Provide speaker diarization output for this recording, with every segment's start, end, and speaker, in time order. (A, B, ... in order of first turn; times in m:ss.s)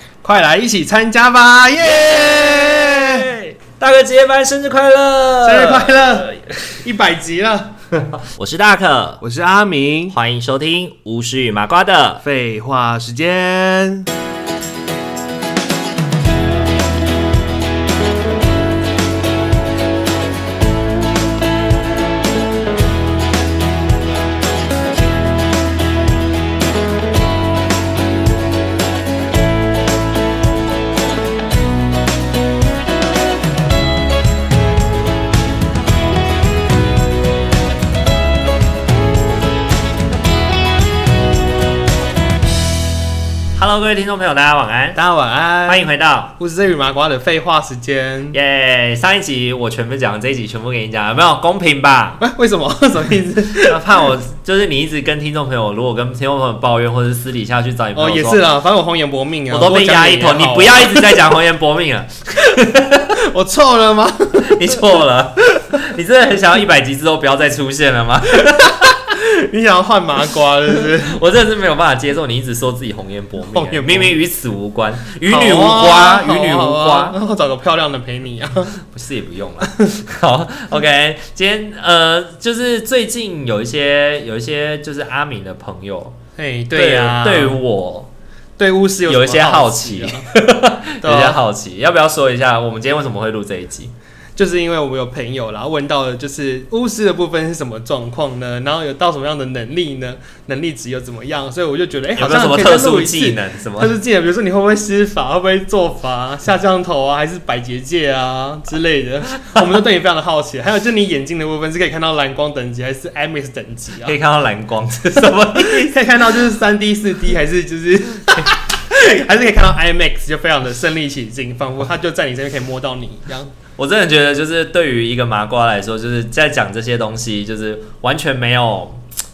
0:00.2-0:03.3 A
0:01.8-0:06.8 B
0:05.4-0:08.1 A
0:08.2-0:09.2 B
0:09.2-0:10.1 A
0:10.1-0:12.2 B
0:12.2-0:14.1 A
0:43.5-0:45.0 B
0:44.9-0:48.4 A
0:45.6-0:46.3 B
0:48.3-0:52.2 B
0:52.2-0:54.1 A
0:53.6-0:58.4 B
0:57.9-1:01.2 A
0:59.5-1:03.2 B
1:03.1-1:05.0 A
1:04.3-1:08.9 B
1:08.4-1:11.2 A
1:10.8-1:17.2 B
1:13.5-1:14.2 A
1:15.2-1:18.7 A
1:18.8-1:26.2 B
1:19.6-1:19.9 A
1:26.4-1:27.6 A
1:26.7-1:28.1 B
1:28.6-1:30.3 A
1:29.0-1:33.9 B
1:31.0-1:31.4 A
1:34.4-1:54.2 A
1:42.2-1:43.9 B
1:54.0-1:56.0 B
1:55.2-2:03.5 A
2:03.8-2:09.0 B